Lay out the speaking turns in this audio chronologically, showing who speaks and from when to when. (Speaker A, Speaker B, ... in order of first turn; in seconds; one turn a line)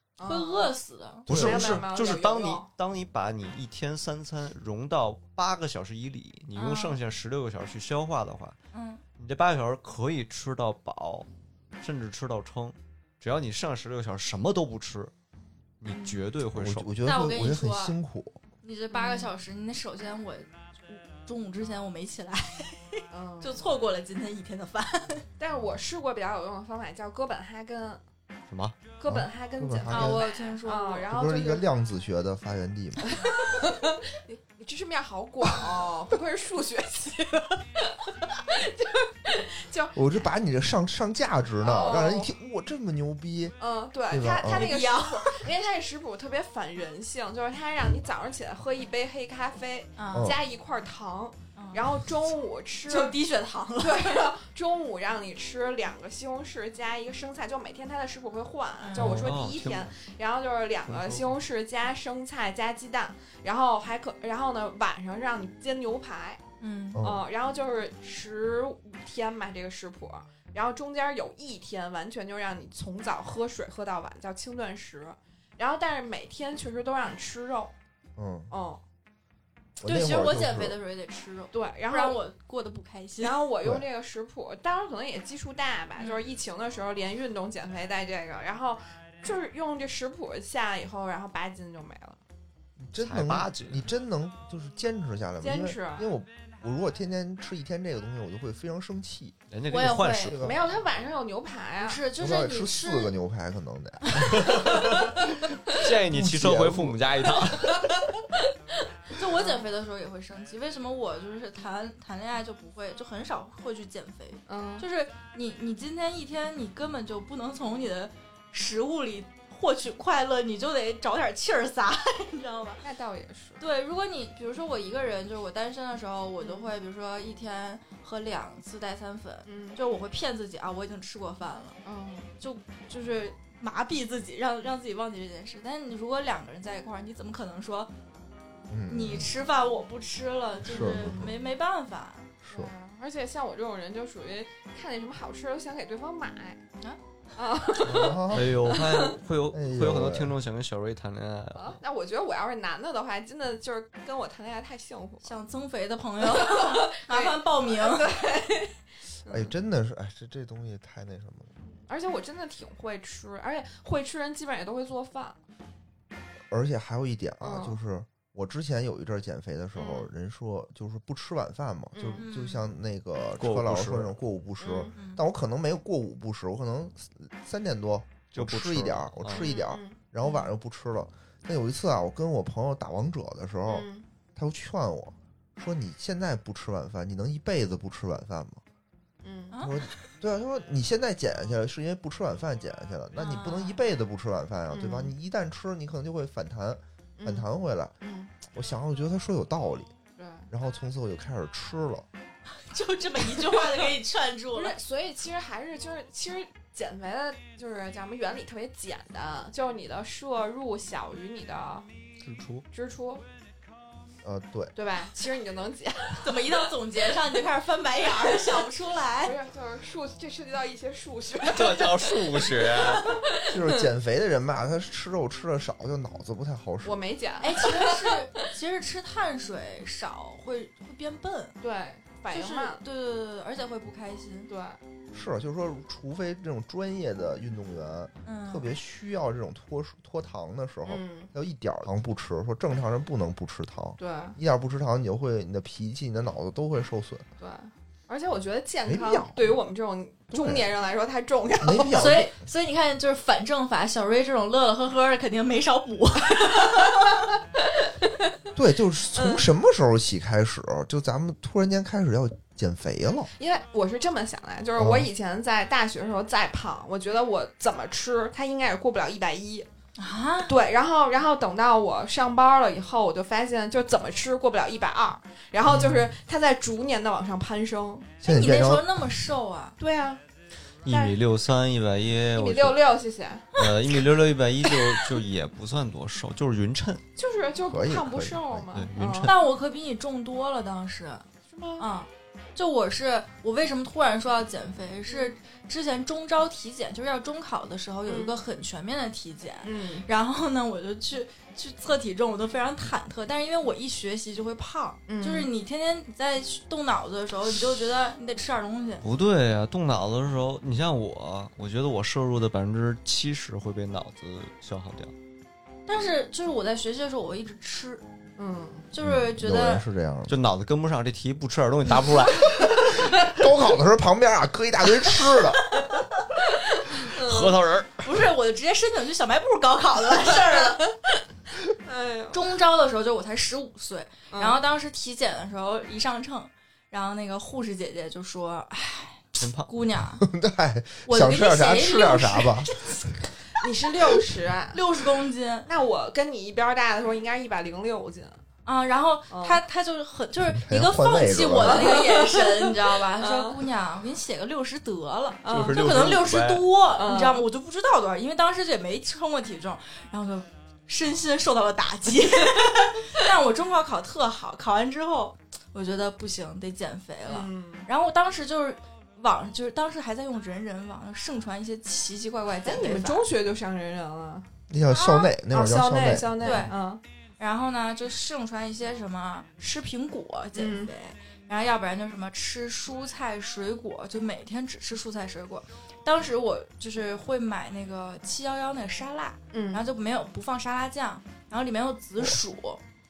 Speaker A: 0.2-0.7
Speaker B: 0.2-1.3
Speaker C: 1.3-8.6
Speaker D: 1.3-1.9
Speaker A: 1.3-2.7
Speaker B: 6.5-6.9
Speaker B: 8.7-9.0
Speaker C: 9.2-11.3
Speaker C: 11.8-15.1
Speaker C: 15.8-16.9
Speaker A: 15.9-16.2
Speaker D: 16.5-18.4
Speaker B: 17.0-17.9
Speaker B: 18.6-25.3
Speaker A: 18.9-19.3
Speaker A: 23.1-23.6
Speaker A: 25.4-28.0
Speaker C: 28.5-28.7
Speaker A: 29.0-31.6
Speaker D: 29.1-30.3
Speaker B: 29.9-31.1
Speaker D: 31.1-33.1
Speaker A: 33.1-40.1
Speaker D: 39.9-43.5
Speaker A: 41.6-42.3
Speaker A: 43.6-53.2
Speaker D: 44.1-44.8
Speaker B: 44.4-45.4
Speaker B: 50.0-50.3
Speaker B: 51.5-51.8
Speaker B: 52.9-54.3
Speaker A: 53.8-66.4
Speaker B: 58.8-59.2
Speaker C: 58.9-59.9
Speaker C: 60.9-61.4
Speaker B: 66.6-67.0
Speaker D: 66.9-67.2
Speaker A: 67.0-77.7
Speaker D: 78.2-78.5
Speaker A: 78.5-78.8
Speaker D: 79.8-80.8
Speaker B: 79.8-83.4
Speaker A: 81.5-82.2
Speaker A: 83.2-92.2
Speaker D: 92.8-99.4
Speaker C: 93.0-93.9
Speaker A: 95.4-96.1
Speaker C: 99.5-100.5
Speaker B: 99.7-100.3
Speaker D: 100.1-100.8
Speaker A: 100.4-102.0
Speaker B: 101.8-103.1
Speaker D: 102.2-104.8
Speaker C: 104.3-105.2
Speaker A: 104.5-105.0
Speaker C: 105.7-107.9
Speaker D: 106.1-107.0
Speaker A: 107.5-108.0
Speaker B: 109.1-122.8
Speaker A: 109.3-109.6
Speaker A: 114.5-114.8
Speaker A: 122.8-123.6
Speaker B: 123.6-131.8
Speaker A: 126.4-126.7
Speaker A: 129.4-129.8
Speaker A: 131.8-132.3
Speaker B: 132.4-137.9
Speaker D: 138.7-139.3
Speaker B: 138.9-142.3
Speaker D: 140.6-141.3
Speaker D: 142.4-142.7
Speaker A: 142.5-146.6
Speaker A: 147.3-149.1
Speaker D: 147.8-148.6
Speaker C: 147.8-151.8
Speaker D: 149.5-150.3
Speaker A: 151.5-155.3
Speaker B: 155.2-158.1
Speaker A: 156.2-159.5
Speaker D: 159.3-161.5
Speaker A: 161.7-165.4
Speaker D: 166.5-188.6
Speaker A: 167.4-167.8
Speaker A: 169.8-170.1
Speaker A: 171.9-172.2
Speaker B: 172.2-172.6
Speaker C: 173.4-174.1
Speaker A: 174.6-174.9
Speaker B: 174.9-175.2
Speaker C: 178.3-179.5
Speaker A: 179.3-180.0
Speaker B: 180.2-180.5
Speaker A: 183.7-184.0
Speaker A: 189.2-189.6
Speaker B: 189.5-189.9
Speaker D: 189.6-197.9
Speaker B: 193.2-193.8
Speaker A: 194.7-195.1
Speaker A: 197.2-197.5
Speaker A: 198.0-198.3
Speaker D: 198.5-199.9
Speaker A: 200.2-200.5
Speaker D: 200.5-202.1
Speaker B: 202.7-204.8
Speaker A: 203.3-203.9
Speaker A: 204.5-211.9
Speaker C: 212.2-212.6
Speaker A: 212.7-213.2
Speaker D: 214.2-214.7
Speaker A: 214.7-216.5
Speaker B: 216.2-219.3
Speaker A: 219.2-223.9
Speaker C: 221.4-223.1
Speaker D: 223.5-227.0
Speaker A: 226.8-228.1
Speaker B: 227.4-231.5
Speaker A: 231.6-232.8
Speaker B: 232.3-234.5
Speaker A: 234.5-234.8
Speaker D: 235.1-247.2
Speaker B: 238.2-238.7
Speaker A: 240.8-241.3
Speaker A: 244.0-244.4
Speaker A: 247.4-252.2
Speaker D: 248.9-249.5
Speaker D: 250.3-250.7
Speaker D: 251.6-252.3
Speaker B: 251.9-257.0
Speaker D: 258.5-263.3
Speaker A: 259.1-259.5
Speaker A: 263.4-269.7
Speaker D: 264.8-265.1
Speaker B: 270.0-270.5
Speaker A: 270.4-278.1
Speaker D: 275.7-276.0
Speaker D: 278.2-278.9
Speaker B: 278.2-279.8
Speaker A: 279.8-280.2
Speaker C: 280.8-282.8
Speaker A: 280.9-281.1
Speaker A: 282.3-283.6
Speaker C: 283.6-287.0
Speaker A: 287.2-289.3
Speaker D: 287.7-288.7
Speaker C: 288.7-289.3
Speaker B: 289.2-291.2
Speaker A: 291.5-291.9
Speaker B: 291.8-309.0
Speaker A: 298.1-298.4
Speaker A: 299.6-300.1
Speaker A: 305.1-305.5
Speaker C: 309.0-315.1
Speaker B: 315.9-318.0
Speaker A: 318.4-318.9
Speaker B: 318.9-319.8
Speaker D: 319.0-320.3
Speaker C: 320.3-322.9
Speaker D: 323.2-325.6
Speaker A: 326.5-327.6
Speaker C: 327.1-328.0
Speaker B: 328.0-330.8
Speaker A: 330.4-330.9
Speaker A: 331.8-332.4
Speaker B: 332.3-340.3
Speaker A: 334.3-334.6
Speaker C: 339.4-339.7
Speaker D: 340.2-342.7
Speaker B: 341.1-343.0
Speaker A: 343.5-344.8
Speaker B: 344.7-345.7
Speaker A: 345.7-348.4
Speaker B: 348.6-373.2
Speaker A: 349.3-349.6
Speaker D: 350.4-352.0
Speaker A: 351.6-353.6
Speaker A: 355.4-355.9
Speaker C: 355.5-356.6
Speaker A: 356.9-357.4
Speaker A: 367.3-367.9
Speaker A: 372.6-374.5
Speaker D: 374.7-376.7
Speaker B: 374.9-375.3
Speaker A: 375.5-377.0
Speaker B: 376.4-376.7
Speaker B: 377.4-392.8
Speaker A: 380.6-380.9
Speaker A: 389.5-389.8